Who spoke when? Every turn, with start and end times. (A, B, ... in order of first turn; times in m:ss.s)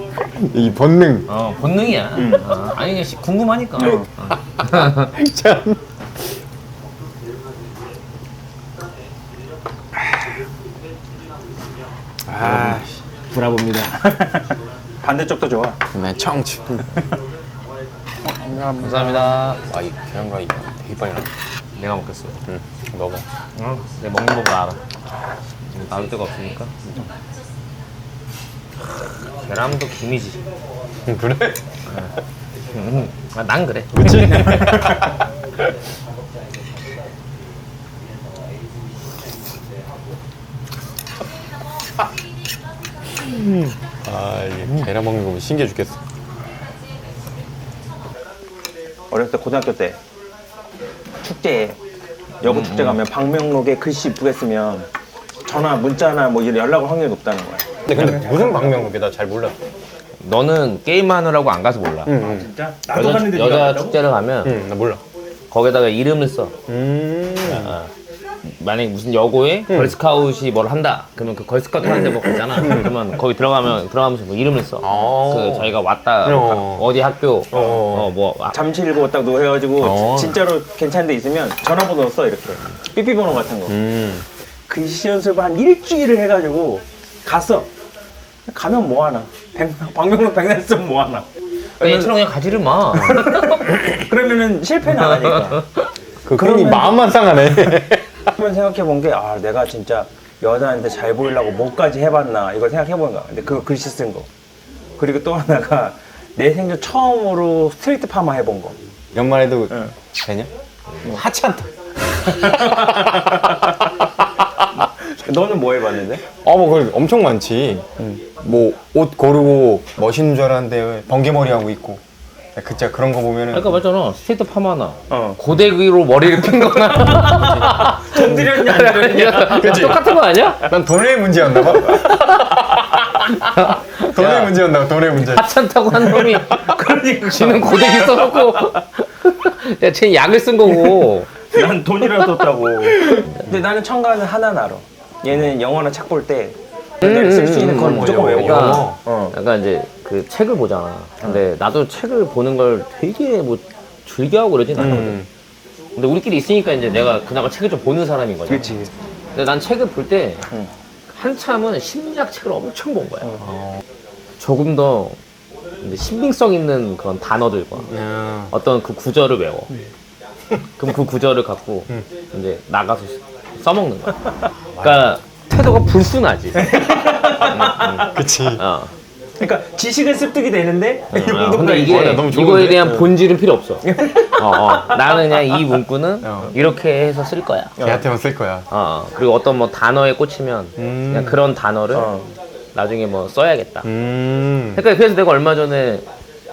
0:00.2-0:01.3 A
0:01.3-0:05.1 B
0:02.1-0:02.5 C
0:03.8-0:04.1 C
0:04.6-0:06.3 A
0:12.3-0:12.8 C
0:12.3-0:13.0 A
0:13.4-0:13.9 B
0:13.4-0:15.8 C
0:15.9-0:17.0 A
0:18.2-0:19.4 C
0:18.8-0:19.6 B
0:19.6-0:21.3 A
0:21.7-0:22.4 B
0:22.4-0:23.2 A
0:23.5-0:24.8 B
0:25.6-0:27.0 B
0:28.9-0:30.4 B
0:31.0-0:31.7 A
0:31.9-0:32.2 B
0:32.7-0:34.6 B
0:33.9-0:35.2 A
0:44.0-0:46.0 A
0:49.1-0:50.0 C
0:51.2-0:51.8 C
0:52.4-0:54.9 C
0:52.4-0:53.0 B
0:55.4-0:58.8 C
0:57.8-0:59.5 A
1:00.2-1:02.2 B
1:02.0-1:02.5 A
1:02.2-1:04.1 C
1:02.9-1:04.6 B
1:04.4-1:05.0 A
1:05.5-1:06.6 B
1:06.7-1:07.8 A
1:07.4-1:07.9 B
1:08.4-1:18.6 B
1:09.7-1:10.0 A
1:11.8-1:13.0 A
1:14.8-1:16.9 A
1:17.5-1:18.1 A
1:17.5-1:17.8 C
1:18.5-1:23.8 C
1:19.8-1:20.4 A
1:23.6-1:24.3 A
1:24.7-1:27.7 C
1:28.5-1:31.3 C
1:31.8-1:32.1 C
1:31.8-1:33.8 B
1:32.9-1:35.7 C
1:35.5-1:35.8 B
1:36.2-1:38.3 A
1:36.3-1:44.3 C
1:45.0-1:48.8 C
1:49.1-1:50.5 A
1:51.0-1:51.7 A
1:52.2-1:53.5 A
1:52.4-1:53.9 C
1:54.7-1:56.2 C
1:56.3-1:57.9 A
1:58.0-1:58.3 C
1:58.4-2:02.0 A
2:02.5-2:03.8 A
2:03.5-2:10.7 B
2:05.1-2:05.4 C
2:07.0-2:09.8 C
2:09.4-2:12.8 A
2:11.5-2:14.6 B
2:13.7-2:16.1 A
2:15.1-2:21.4 B
2:15.9-2:18.8 C
2:21.5-2:29.3 C
2:27.0-2:35.2 B
2:27.6-2:29.0 A
2:34.7-2:35.3 A
2:35.9-2:38.7 B
2:38.5-2:38.9 C
2:39.3-2:40.5 B
2:41.1-2:43.5 B
2:44.4-2:45.2 B
2:45.8-2:47.9 B
2:47.9-2:48.5 A
2:48.5-2:49.7 B
2:50.8-2:54.3 B
2:54.7-2:55.0 A
2:54.8-2:59.0 B
2:56.6-2:57.9 C
2:57.8-2:58.6 A
2:59.4-3:02.2 C
3:01.1-3:07.8 B
3:01.3-3:03.2 A
3:03.8-3:05.5 C
3:06.2-3:06.5 A
3:07.8-3:08.0 C
3:07.8-3:08.7 A
3:08.7-3:12.1 B
3:10.8-3:11.4 A
3:11.9-3:12.3 C
3:12.7-3:13.9 B
3:13.8-3:14.8 A
3:14.7-3:16.1 B